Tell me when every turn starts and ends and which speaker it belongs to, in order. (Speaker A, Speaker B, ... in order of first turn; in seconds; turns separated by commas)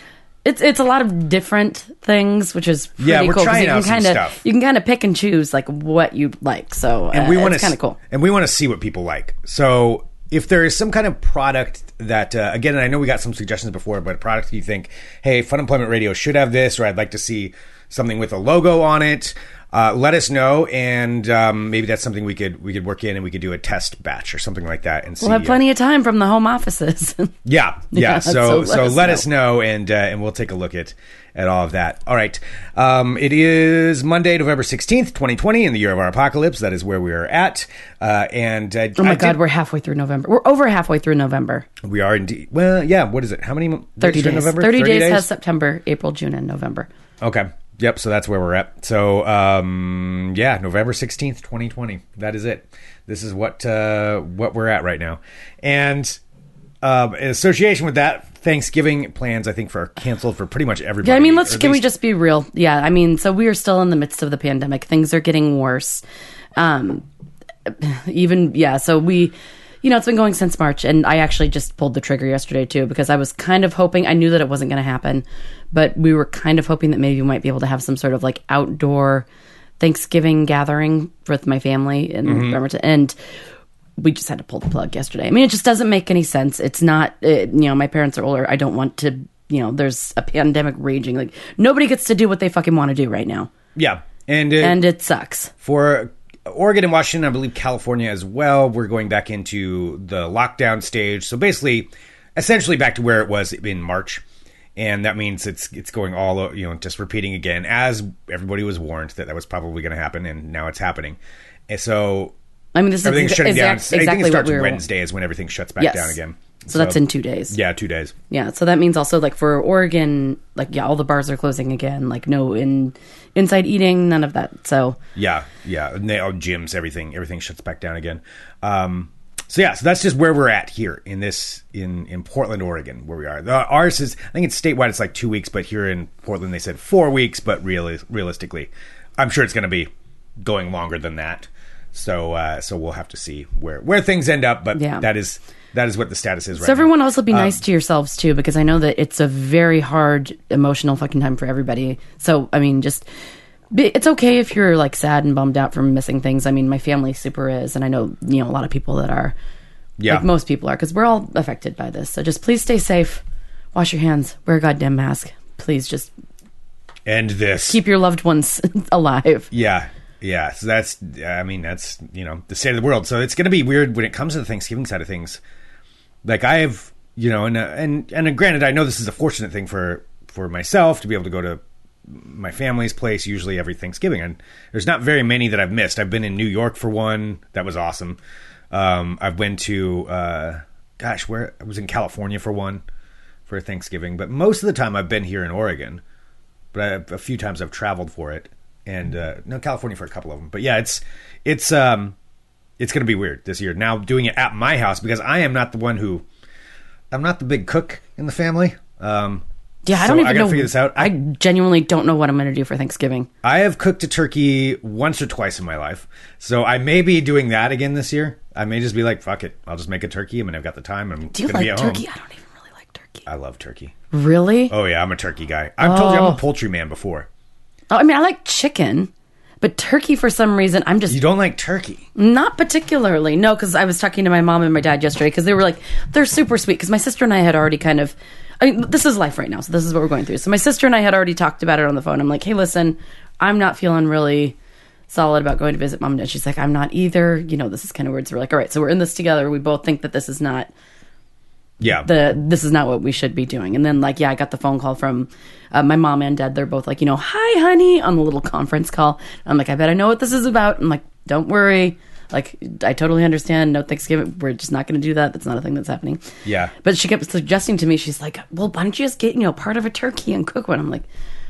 Speaker A: 0.4-8.0, Speaker B: 3.0-4.4, Speaker B: 7.1-25.6, Speaker A: 25.2-27.4, Speaker B: 27.4-39.4, Speaker A: 27.9-29.2, Speaker A: 39.0-41.6, Speaker B: 41.8-45.3, Speaker A: 44.0-46.9, Speaker B: 47.2-56.2, Speaker B: 56.8-61.9, Speaker A: 61.0-66.0, Speaker A: 66.6-67.0, Speaker A: 67.7-79.2, Speaker A: 79.8-83.2, Speaker B: 82.2-82.6, Speaker A: 84.0-93.5, Speaker B: 93.8-94.8, Speaker A: 94.6-95.5, Speaker B: 95.6-104.2, Speaker B: 104.8-111.2, Speaker B: 111.7-112.3, Speaker A: 112.7-114.8, Speaker B: 113.0-117.0, Speaker A: 115.8-116.2, Speaker A: 116.7-117.5, Speaker B: 117.5-118.1, Speaker A: 118.3-125.0, Speaker B: 125.1-139.9, Speaker B: 140.4-147.6, Speaker A: 144.7-145.1, Speaker A: 146.6-153.0, Speaker A: 153.7-159.3, Speaker B: 160.0-160.3, Speaker A: 160.1-163.2, Speaker A: 163.7-166.1, Speaker B: 167.1-167.8, Speaker A: 167.7-169.5, Speaker B: 169.5-175.4, Speaker B: 176.2-188.2, Speaker B: 188.7-192.8, Speaker B: 193.5-196.0, Speaker B: 196.7-202.1, Speaker B: 202.8-206.2, Speaker B: 207.1-211.1, Speaker A: 209.8-213.3, Speaker B: 213.4-222.0, Speaker A: 221.3-223.2, Speaker B: 223.2-223.9, Speaker A: 224.1-224.7, Speaker B: 224.7-227.3, Speaker A: 225.8-226.4, Speaker A: 227.9-229.1, Speaker A: 229.6-231.2, Speaker B: 231.1-232.0, Speaker A: 232.2-244.6, Speaker A: 245.1-250.7, Speaker B: 251.8-252.1, Speaker A: 252.0-271.1, Speaker B: 266.4-266.7